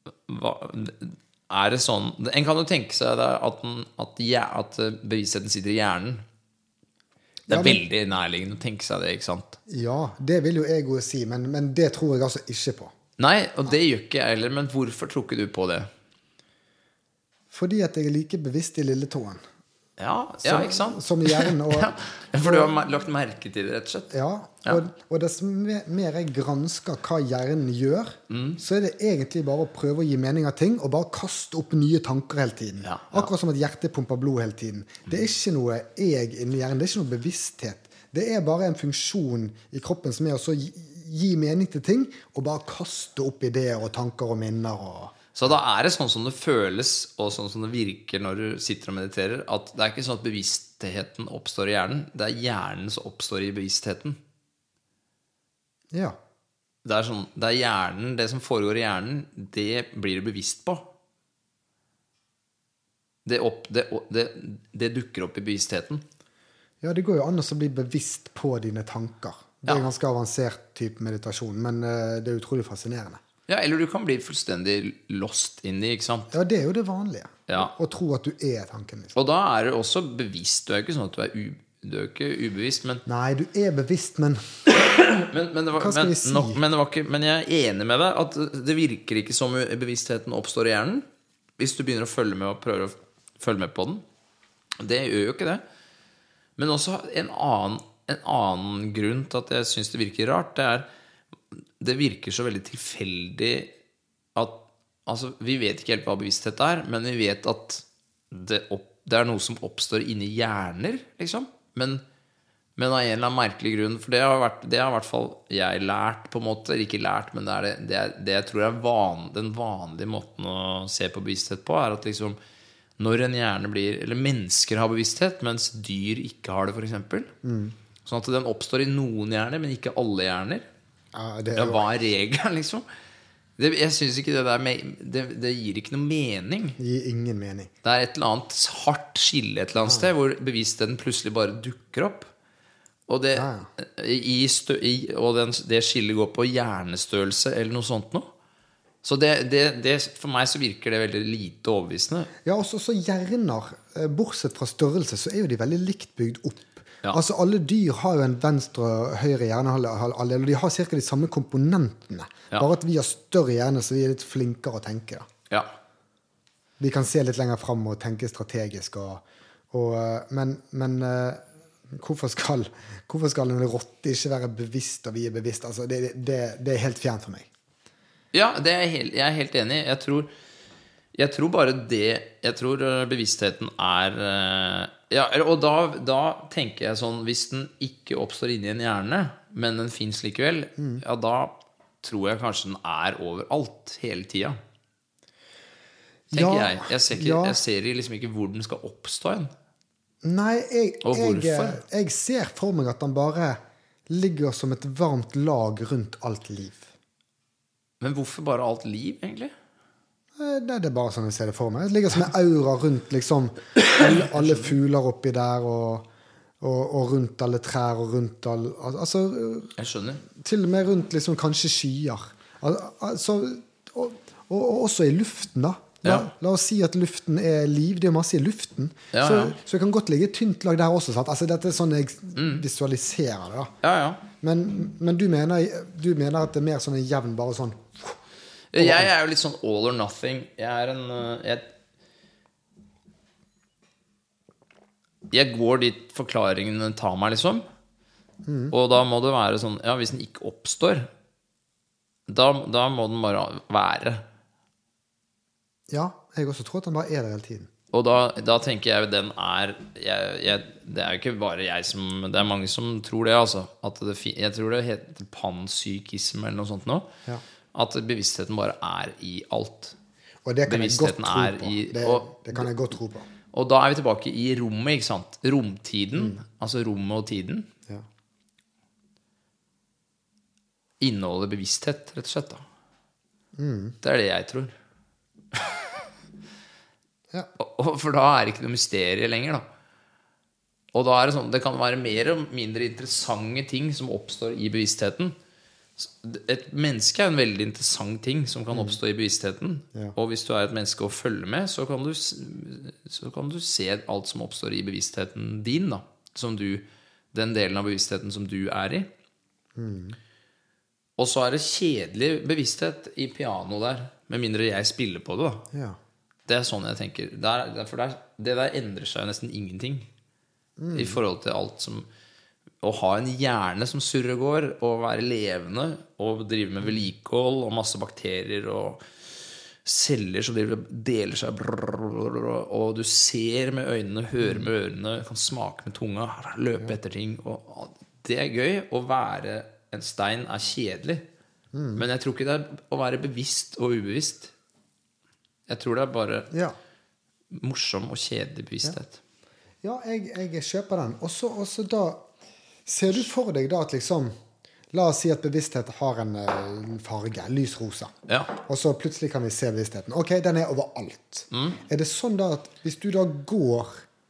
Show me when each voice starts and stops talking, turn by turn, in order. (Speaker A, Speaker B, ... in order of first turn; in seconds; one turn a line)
Speaker A: 0.2-6.2
Speaker B: 7.5-7.8
Speaker A: 7.5-9.6
Speaker B: 9.7-12.9
Speaker A: 13.2-15.9
Speaker B: 17.5-19.4
Speaker A: 20.0-24.8
Speaker B: 20.4-22.7
Speaker B: 24.1-45.1
Speaker A: 28.3-28.6
Speaker A: 32.8-33.3
Speaker A: 45.3-54.2
Speaker B: 55.9-56.2
Speaker A: 56.8-60.9
Speaker A: 63.2-66.0
Speaker B: 66.8-73.2
Speaker A: 73.5-76.3
Speaker B: 76.3-79.1
Speaker A: 77.5-77.7
Speaker A: 79.1-83.0
Speaker B: 83.0-84.6
Speaker A: 84.9-91.0
Speaker B: 85.8-86.6
Speaker A: 91.6-94.0
Speaker A: 94.8-95.6
Speaker A: 96.6-100.9
Speaker A: 101.8-103.7
Speaker A: 104.3-112.0
Speaker A: 112.8-122.4
Speaker A: 123.0-127.3
Speaker B: 127.4-127.8
Speaker A: 128.0-130.7
Speaker B: 131.1-131.9
Speaker A: 131.5-132.8
Speaker A: 133.6-136.8
Speaker B: 136.8-137.7
Speaker A: 137.8-142.3
Speaker B: 139.8-140.1
Speaker A: 143.1-148.3
Speaker B: 143.3-143.7
Speaker A: 149.0-152.3
Speaker B: 152.4-165.3
Speaker B: 166.8-177.5
Speaker A: 178.3-180.3
Speaker A: 181.1-194.6
Speaker B: 196.3-197.6
Speaker A: 196.3-199.5
Speaker B: 200.2-206.9
Speaker A: 201.0-201.8
Speaker A: 208.0-209.5
Speaker B: 210.3-216.1
Speaker A: 214.2-214.7
Speaker B: 216.6-219.7
Speaker A: 219.8-220.2
Speaker B: 220.2-233.7
Speaker A: 226.0-226.3
Speaker A: 229.1-229.6
Speaker A: 232.3-232.6
Speaker A: 233.8-234.2
Speaker B: 234.4-238.2
Speaker A: 238.7-241.7
Speaker B: 238.8-239.1
Speaker A: 245.3-247.6
Speaker B: 248.4-248.7
Speaker A: 248.7-251.1
Speaker A: 252.3-254.2
Speaker B: 255.9-257.7
Speaker A: 257.9-267.1
Speaker A: 267.7-269.9
Speaker B: 270.4-273.3
Speaker A: 270.7-272.7
Speaker A: 273.5-277.7
Speaker A: 281.0-282.6
Speaker B: 283.6-284.0
Speaker A: 284.0-284.7
Speaker A: 285.5-285.9
Speaker A: 287.6-289.6
Speaker A: 290.9-295.4
Speaker A: 296.0-309.1
Speaker B: 309.8-310.2
Speaker A: 311.2-315.6
Speaker B: 315.7-316.0
Speaker A: 316.5-320.1
Speaker B: 320.8-321.2
Speaker A: 320.9-322.1
Speaker A: 322.8-329.1
Speaker A: 329.8-341.2
Speaker B: 334.4-334.7
Speaker B: 341.7-342.0
Speaker A: 341.9-344.5
Speaker A: 345.7-346.5
Speaker B: 346.5-346.8
Speaker A: 347.5-349.2
Speaker B: 349.8-352.3
Speaker B: 352.9-354.3
Speaker B: 354.9-364.0
Speaker A: 358.3-358.5
Speaker A: 361.5-361.8